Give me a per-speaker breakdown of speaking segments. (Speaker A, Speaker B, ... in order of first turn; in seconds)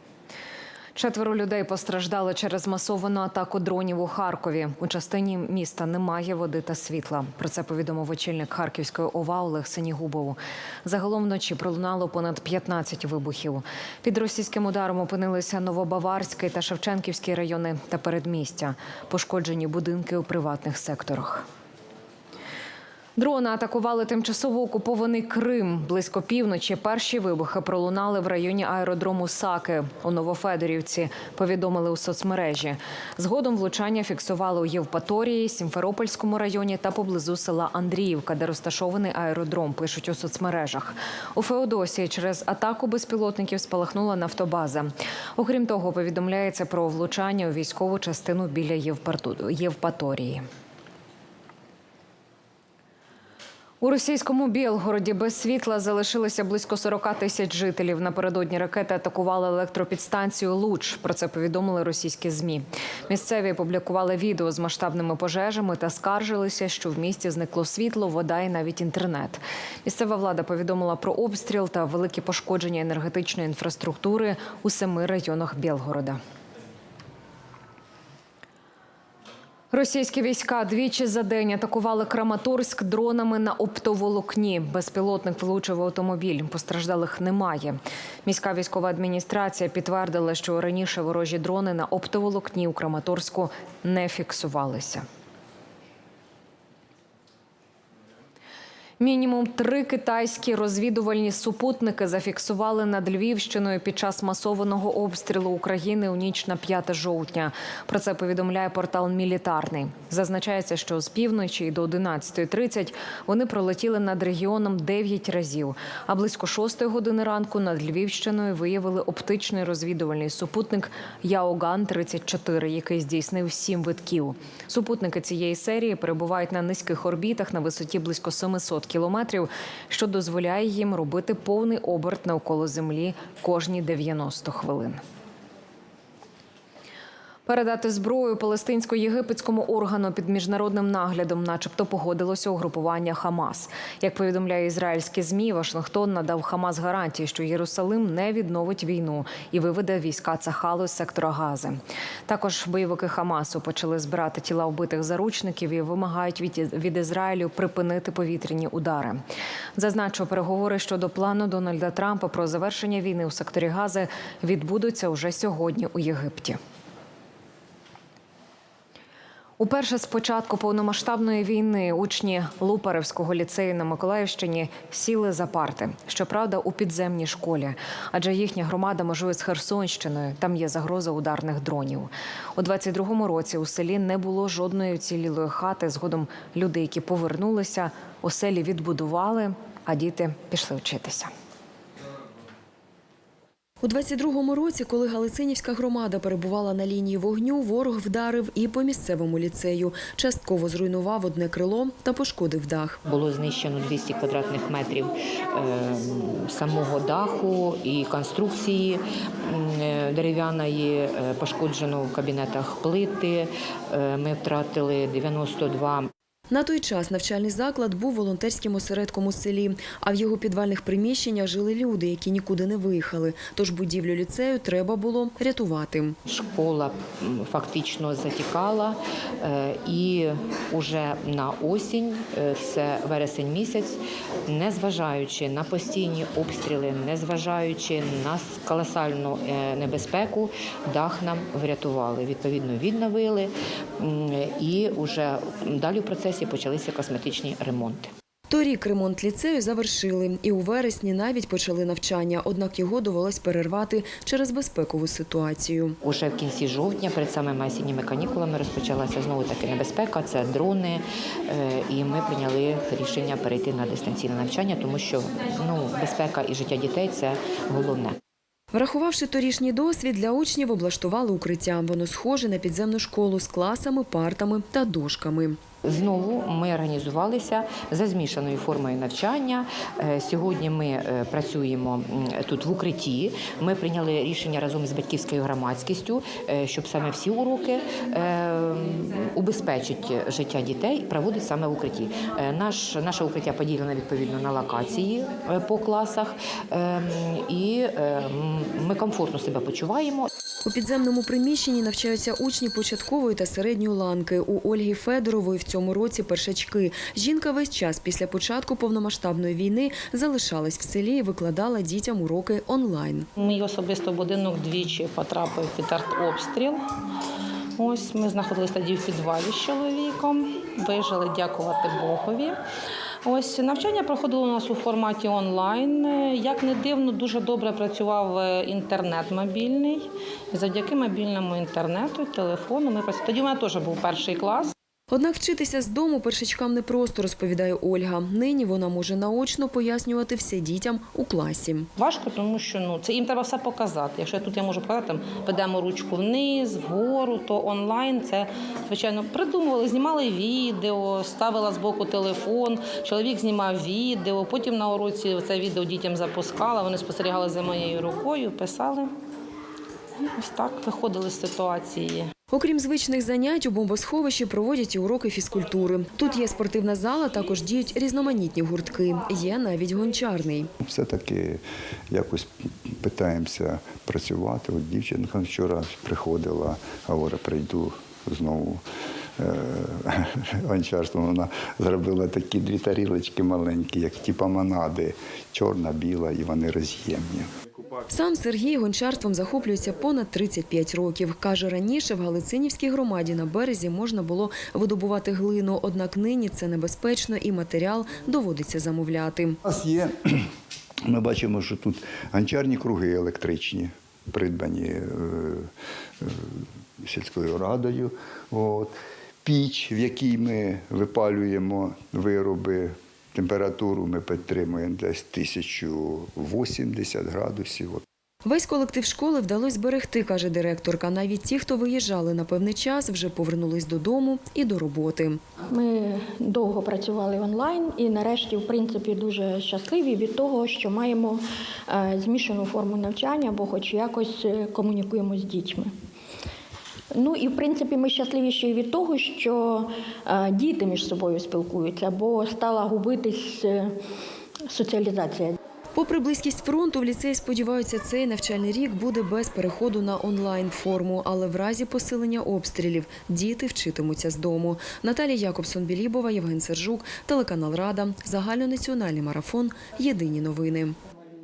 Speaker A: 0.9-21.4, 23.2-50.4, 53.8-76.2, 79.7-95.0, 99.0-135.0, 137.5-159.2, 159.8-166.6, 169.6-191.3
Speaker B: 193.8-203.0, 216.5-226.2, 248.5-256.0, 268.7-275.6, 300.6-313.3, 335.1-341.9, 362.5-370.7, 388.1-399.6, 418.4-425.4, 445.9-460.9
Speaker C: 203.1-216.1, 226.3-248.1, 256.0-268.2, 275.8-300.3
Speaker D: 313.4-316.7, 317.8-322.5, 323.3-330.0, 330.5-334.7, 342.0-359.1, 360.3-362.2
Speaker E: 370.8-372.5, 373.0-378.8, 379.4-387.5, 399.6-400.4, 401.1-405.7, 406.2-418.0
Speaker F: 425.7-435.9, 437.1-443.9, 444.7-445.5